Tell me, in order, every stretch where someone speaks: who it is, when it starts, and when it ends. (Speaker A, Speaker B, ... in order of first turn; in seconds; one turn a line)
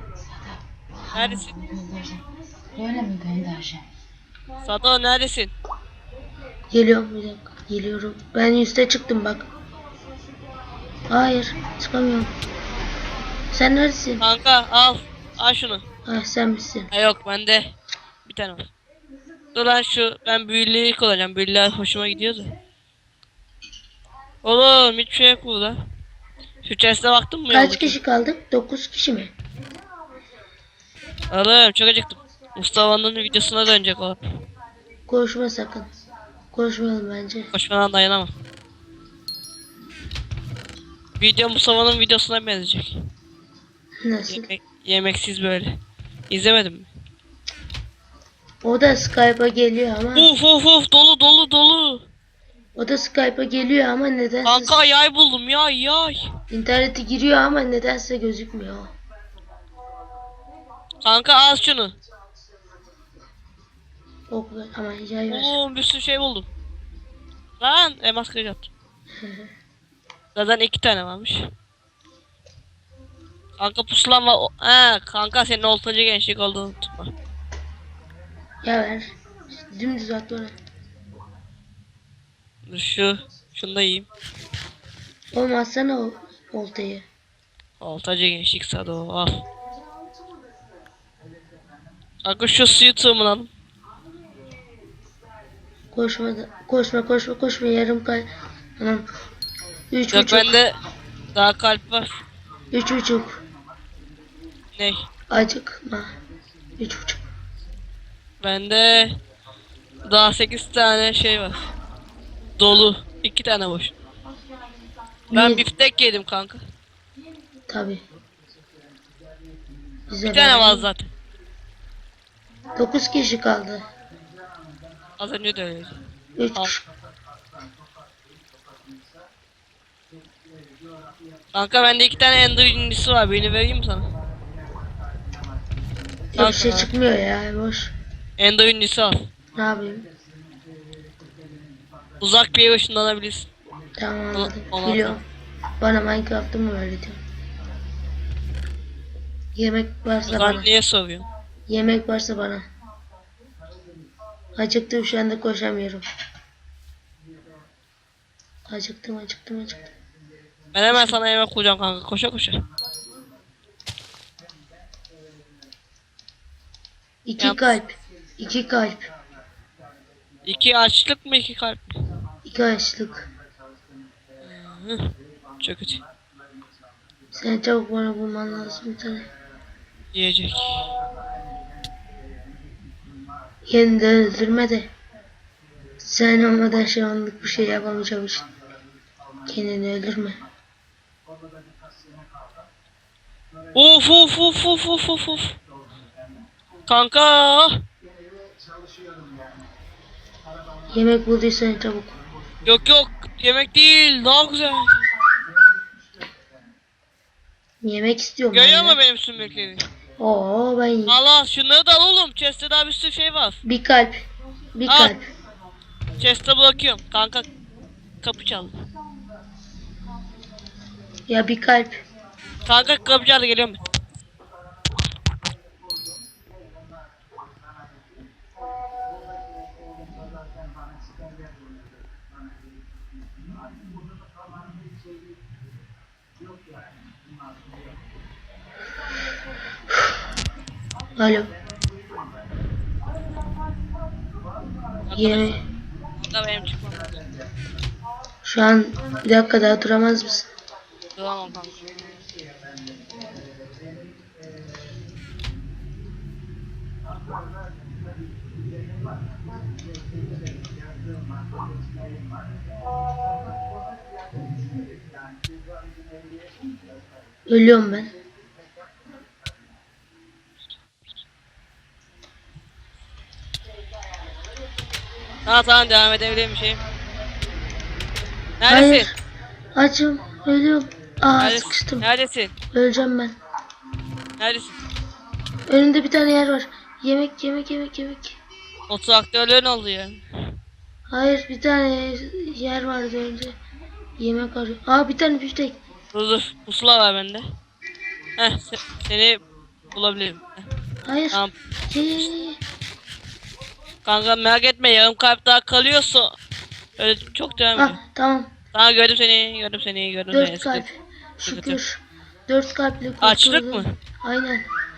Speaker A: 0.3-3.8
Speaker B: 1.1-1.5
Speaker B: 4.6-5.5
Speaker C: 6.7-9.5
Speaker C: 11.1-12.3
Speaker C: 13.5-14.2
Speaker B: 14.2-15.8
Speaker C: 16.0-16.9
Speaker B: 16.9-18.7
Speaker B: 19.5-22.5
Speaker B: 24.4-25.8
Speaker B: 26.6-28.0
Speaker C: 27.5-29.3
Speaker B: 31.3-34.2
Speaker C: 35.1-35.9
Speaker C: 36.5-37.5
Speaker B: 37.5-38.3
Speaker B: 41.2-42.9
Speaker C: 44.0-44.5
Speaker B: 44.3-45.8
Speaker B: 46.3-46.9
Speaker C: 48.6-50.3
Speaker B: 50.1-52.1
Speaker C: 52.7-54.8
Speaker B: 54.4-56.2
Speaker C: 56.5-58.9
Speaker B: 61.0-61.9
Speaker C: 64.3-65.5
Speaker B: 65.3-66.5
Speaker B: 67.6-68.7
Speaker C: 69.1-69.5
Speaker B: 70.3-71.4
Speaker B: 73.6-77.1
Speaker C: 78.6-80.5
Speaker B: 82.7-84.1
Speaker C: 85.3-87.0
Speaker B: 87.8-89.4
Speaker B: 92.2-93.5
Speaker C: 95.9-99.0
Speaker C: 99.9-100.5
Speaker B: 100.1-100.7
Speaker B: 101.3-102.1
Speaker C: 102.7-103.4
Speaker B: 104.8-105.1
Speaker C: 105.3-106.1
Speaker C: 106.8-107.2
Speaker B: 108.4-109.1
Speaker B: 110.0-111.7
Speaker B: 112.6-113.9
Speaker C: 115.3-115.6
Speaker B: 115.3-116.6
Speaker C: 117.7-118.0
Speaker C: 120.1-120.9
Speaker B: 120.2-121.1
Speaker C: 122.7-123.8
Speaker B: 125.2-126.0
Speaker C: 126.4-126.8
Speaker B: 131.5-134.1
Speaker C: 136.3-137.9
Speaker B: 136.4-136.9
Speaker B: 138.4-139.2
Speaker C: 139.5-140.1
Speaker B: 142.2-143.5
Speaker C: 144.0-145.2
Speaker B: 144.3-145.2
Speaker C: 145.8-147.2
Speaker C: 149.5-150.7
Speaker B: 150.3-151.2
Speaker C: 151.7-152.7
Speaker C: 154.5-156.0
Speaker C: 158.7-159.9
Speaker B: 160.7-162.6
Speaker C: 160.9-161.2
Speaker C: 167.2-169.1
Speaker B: 167.4-167.6
Speaker B: 170.4-171.9
Speaker C: 172.4-173.3
Speaker B: 174.4-175.1
Speaker B: 175.6-176.0
Speaker C: 177.3-179.3
Speaker B: 180.1-180.8
Speaker C: 183.7-184.9
Speaker C: 186.0-188.4
Speaker C: 189.5-190.4
Speaker B: 193.7-195.6
Speaker B: 196.9-197.8
Speaker C: 200.9-202.2
Speaker B: 202.7-204.9
Speaker C: 207.8-209.0
Speaker B: 208.5-209.8
Speaker C: 210.2-211.2
Speaker B: 211.1-213.6
Speaker C: 213.6-215.3
Speaker B: 214.9-215.1
Speaker B: 216.2-217.4
Speaker B: 218.2-218.7
Speaker C: 221.3-222.0
Speaker B: 222.7-223.8
Speaker C: 241.2-241.5
Speaker B: 245.1-245.6
Speaker C: 245.1-245.6
Speaker B: 246.2-247.2
Speaker C: 248.4-250.5
Speaker B: 251.1-251.8
Speaker C: 267.5-268.1
Speaker B: 275.4-276.8
Speaker B: 278.6-279.1
Speaker C: 278.7-279.2
Speaker C: 279.7-282.1
Speaker B: 281.4-282.5
Speaker C: 282.7-283.4
Speaker B: 284.4-284.8
Speaker C: 285.7-288.4
Speaker B: 288.9-290.2
Speaker C: 291.1-293.6
Speaker C: 294.2-295.8
Speaker B: 296.1-297.4
Speaker B: 298.4-300.6
Speaker C: 301.0-302.6
Speaker B: 304.0-306.3
Speaker B: 307.0-308.0
Speaker C: 307.8-308.5
Speaker B: 308.7-310.8
Speaker C: 310.3-314.6
Speaker B: 311.4-311.8
Speaker B: 313.2-313.9